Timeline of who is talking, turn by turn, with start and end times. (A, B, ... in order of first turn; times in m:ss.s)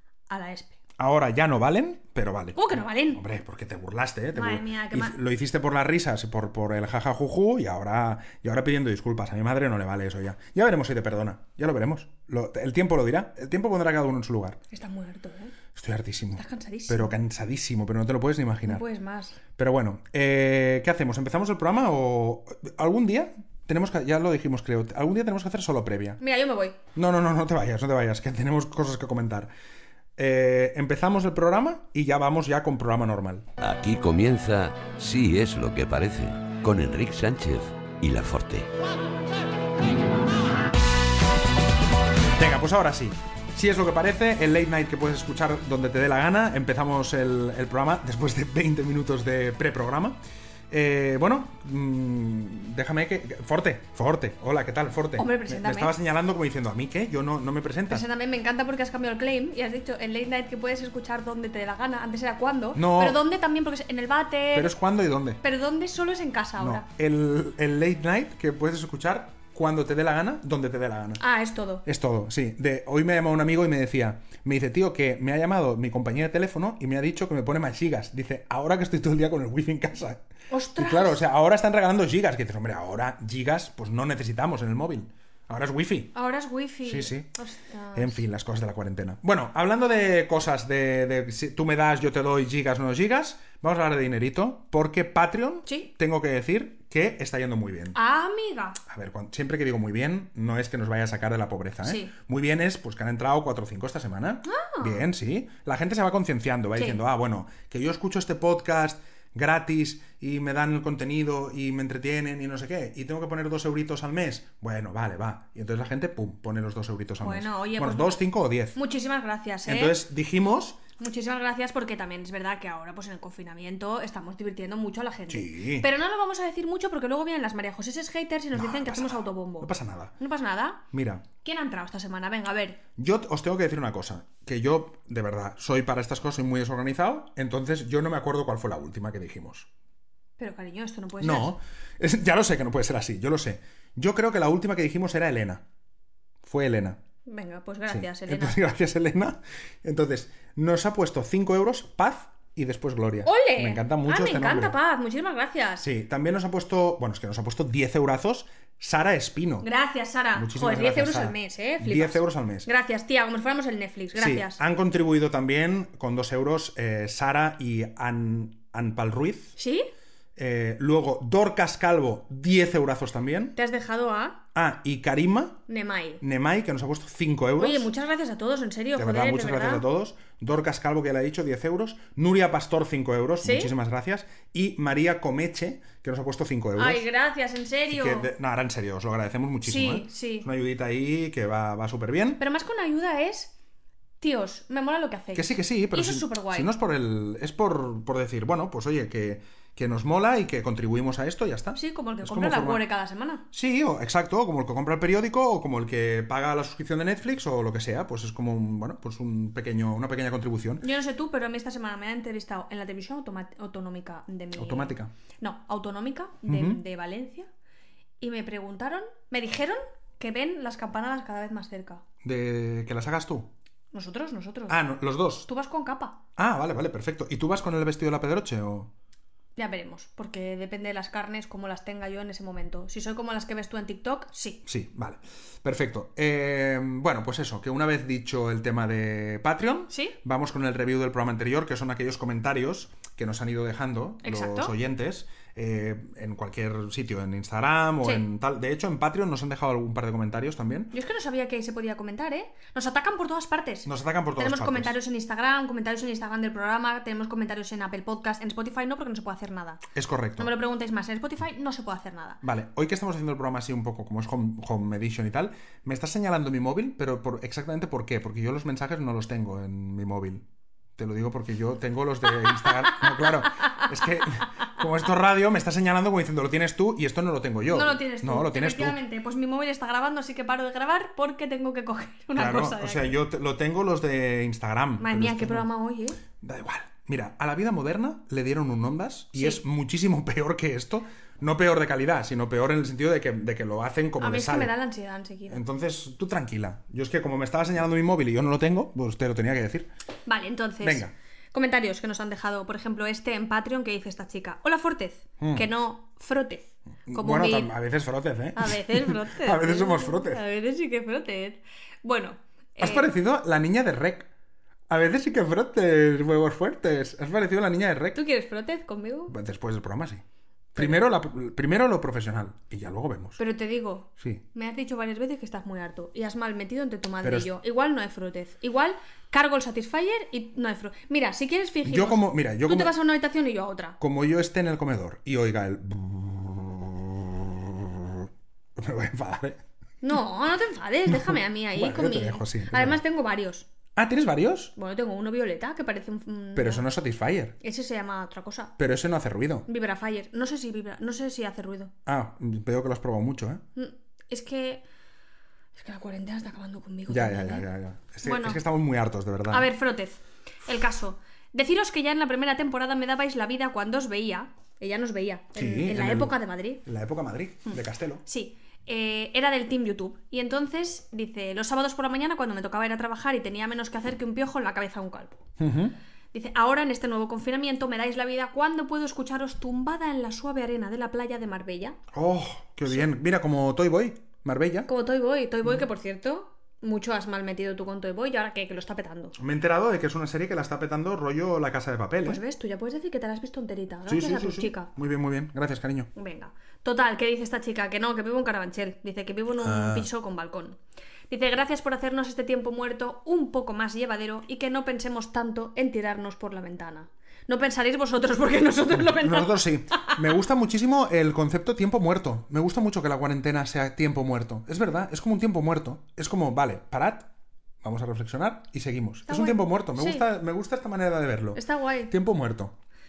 0:00.3-0:00.8 A
0:01.0-0:14.6 B
0:02.6-0:03.2 A
0:04.3-0:05.2 A
0:14.7-0:15.6 A
0:15.7-0:18.8 B
0:16.4-0:17.1 A
0:18.7-0:19.4 A
0:19.6-0:26.2 B
0:26.2-0:26.8 A
0:27.0-0:29.5 B
0:30.2-0:33.5 B
0:33.6-0:38.7 C
0:42.4-0:50.2 B
0:50.7-0:58.1 B
0:55.2-0:55.9 A
0:57.9-1:04.7 A
1:02.8-1:03.2 B
1:04.5-1:05.4 B
1:05.4-1:06.9 A
1:06.6-1:11.2 B
1:11.2-1:11.8 A
1:11.8-1:20.2 B
1:20.5-1:21.2 A
1:20.8-1:26.1 B
1:26.2-1:28.2 A
1:26.8-1:27.3 B
1:28.0-1:38.0 B
1:38.0-1:38.8 A
1:38.9-1:58.8 B
1:41.8-1:42.1 A
1:44.4-1:45.1 A
1:57.2-1:58.2 A
1:58.8-2:00.0 A
1:59.7-2:00.8 B
2:01.0-2:10.8 A
2:05.3-2:05.9 B
2:08.5-2:10.1 B
2:10.9-2:11.2 B
2:11.4-2:12.8 A
2:13.0-2:19.7 B
2:20.4-2:21.5 A
2:21.2-2:25.6 B
2:26.4-2:27.0 B
2:27.3-2:28.6 A
2:27.9-2:34.8 B
2:33.2-2:35.8 A
2:35.8-2:39.7 B
2:39.6-2:44.6 A
2:40.4-2:42.7 B
2:44.1-2:49.6 B
2:49.6-2:49.9 A
2:50.4-2:53.6 B
2:53.6-2:54.4 A
2:54.6-2:55.6 B
2:55.7-2:56.2 A
2:56.2-2:57.9 B
2:57.6-2:59.8 A
2:59.0-3:07.0 B
3:03.4-3:03.7 A
3:06.8-3:08.3 A
3:07.9-3:12.4 B
3:09.6-3:10.5 A
3:12.4-3:13.5 A
3:14.2-3:16.7 A
3:15.3-3:22.9 B
3:21.8-3:23.4 A
3:23.5-3:30.9 B
3:30.8-3:37.5 A
3:34.6-3:35.1 B
3:36.5-3:36.8 B
3:38.2-3:42.0 A
3:42.2-3:43.5 B
3:43.9-3:44.8 A
3:44.7-3:45.5 B
3:45.4-3:46.2 A
3:46.4-3:48.9 B
3:49.6-3:54.6 A
3:54.7-4:10.9 B
3:59.9-4:00.2 A
4:04.2-4:04.7 A
4:10.9-4:19.8 A
4:13.9-4:15.0 B
4:19.9-4:20.5 B
4:20.4-4:22.4 A
4:22.4-4:30.5 B
4:31.0-4:39.0 B
4:32.4-4:33.9 A
4:37.7-4:43.1 A
4:42.4-4:45.7 B
4:45.0-4:46.2 A
4:46.4-4:54.7 B
4:49.3-4:49.6 A
4:54.2-4:55.6 A
4:55.5-4:59.9 B
5:00.3-5:07.7 A
5:00.8-5:01.1 B
5:05.4-5:05.7 B
5:07.1-5:10.4 B
5:08.6-5:13.1 A
5:12.8-5:14.3 B
5:14.9-5:18.2 B
5:18.1-5:19.4 A
5:19.3-5:20.2 B
5:20.7-5:23.4 B
5:23.4-5:34.0 A
5:24.2-5:24.4 B
5:27.2-5:27.5 B
5:31.8-5:32.9 B
5:34.0-5:39.6 B
5:40.0-5:43.7 A
5:41.1-5:43.0 B
5:44.0-5:44.7 B
5:44.8-5:46.8 A
5:46.6-5:47.6 B
5:47.6-5:48.7 A
5:48.8-5:49.7 B
5:49.7-5:51.9 A
5:52.1-5:53.6 B
5:53.8-5:54.8 A
5:55.8-5:57.7 A
5:57.1-5:59.7 B
5:58.2-5:58.6 A
5:59.5-6:06.8 A
6:05.6-6:08.2 B
6:07.7-6:15.4 A
6:15.6-6:16.0 B
6:16.3-6:22.0 A
6:22.1-6:24.9 B
6:24.9-6:29.4 A
6:29.4-6:32.4 B
6:32.2-6:34.9 A
6:34.1-6:36.1 B
6:36.2-6:40.8 A
6:39.6-6:40.1 B
6:41.3-6:50.2 A
6:48.9-6:57.3 B
6:57.8-7:02.8 B
6:59.3-7:00.2 A
7:01.6-7:02.1 A